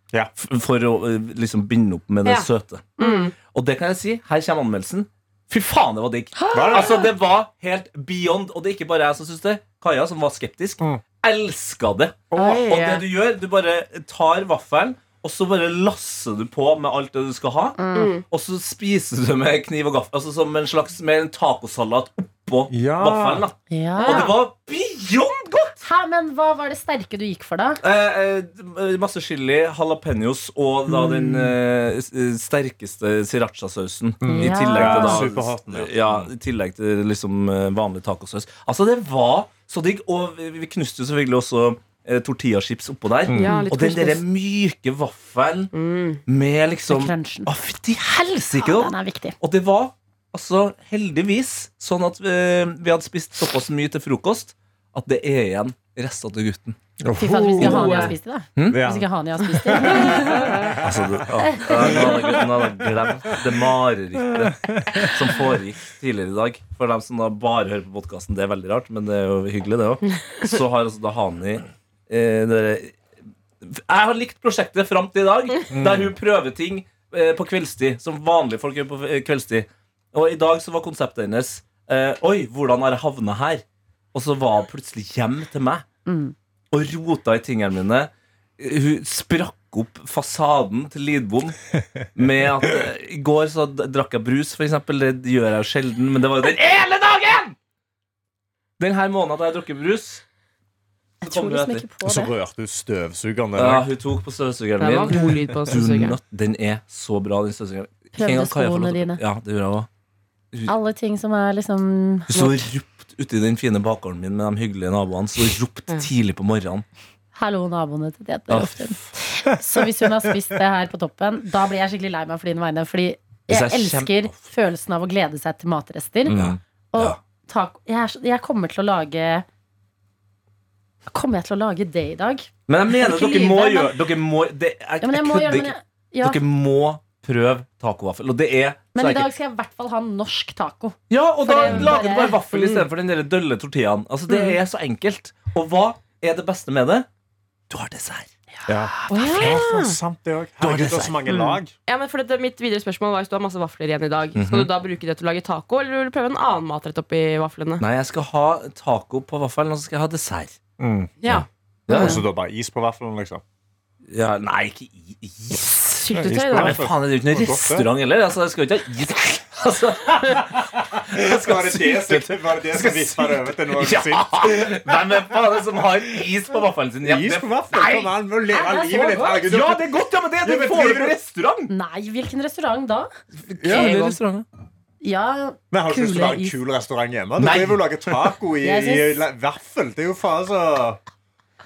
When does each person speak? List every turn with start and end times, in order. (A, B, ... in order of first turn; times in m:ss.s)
0:00.4-0:25.8 A
0:02.2-0:03.4 B
0:06.5-0:06.8 C
0:06.5-0:07.0 D
0:12.3-0:13.0 B
0:17.8-0:18.2 C
0:17.9-0:18.2 B
0:22.7-0:23.4 D
0:23.7-0:24.4 C
0:24.0-0:24.2 B
0:25.8-0:27.8 C
0:27.8-0:45.7 A
0:30.9-0:31.5 D
0:34.2-0:35.2 C
0:34.2-0:36.3 D
0:43.2-0:43.6 D
0:43.4-0:44.2 B
0:45.7-0:46.2 B
0:46.2-0:56.8 A
0:46.9-0:47.5 C
0:48.5-0:49.4 C
0:57.0-0:58.1 D
0:57.2-1:00.5 C
0:57.3-0:58.2 B
0:58.6-0:58.9 A
0:58.7-0:59.1 D
0:59.6-1:03.5 D
0:59.8-1:00.8 B
1:00.8-1:13.0 A
1:01.4-1:02.2 C
1:04.4-1:05.0 D
1:13.6-1:25.8 A
1:15.7-1:16.1 D
1:26.0-1:26.3 C
1:26.7-1:31.6 A
1:32.1-1:37.5 A
1:38.8-1:40.2 A
1:41.2-1:42.3 C
1:41.2-1:41.9 A
1:42.0-1:43.9 D
1:43.5-1:49.9 A
1:44.8-1:46.2 B
1:48.2-1:49.2 C
1:50.7-1:52.3 C
1:52.3-1:56.8 A
1:52.3-1:52.6 B
1:57.3-2:06.4 C
1:58.5-1:59.0 A
2:03.5-2:04.3 A
2:06.2-2:06.6 D
2:06.3-2:07.2 A
2:06.9-2:09.4 C
2:11.1-2:14.0 C
2:12.7-2:19.3 A
2:15.0-2:16.4 C
2:18.9-2:22.5 C
2:21.1-2:27.1 A
2:22.5-2:22.9 B
2:27.7-2:28.3 A
2:28.6-2:31.7 D
2:29.1-2:30.0 B
2:29.1-2:29.6 C
2:30.6-2:30.9 A
2:30.7-2:37.8 B
2:34.3-2:34.7 A
2:37.8-2:40.6 A
2:40.8-2:41.3 D
2:41.3-2:42.2 A
2:41.9-2:42.2 C
2:41.9-2:43.4 D
2:44.1-2:45.8 A
2:45.5-2:46.8 B
2:46.1-2:47.8 D
2:46.5-2:50.4 A
2:50.4-2:54.8 D
2:51.1-2:58.2 A
2:57.0-3:01.2 D
2:58.5-2:59.4 C
2:59.4-3:01.7 A
3:01.7-3:03.1 C
3:03.5-3:04.4 A
3:03.6-3:04.1 D
3:05.0-3:06.6 C
3:05.7-3:11.0 D
3:07.4-3:07.8 A
3:08.6-3:09.2 C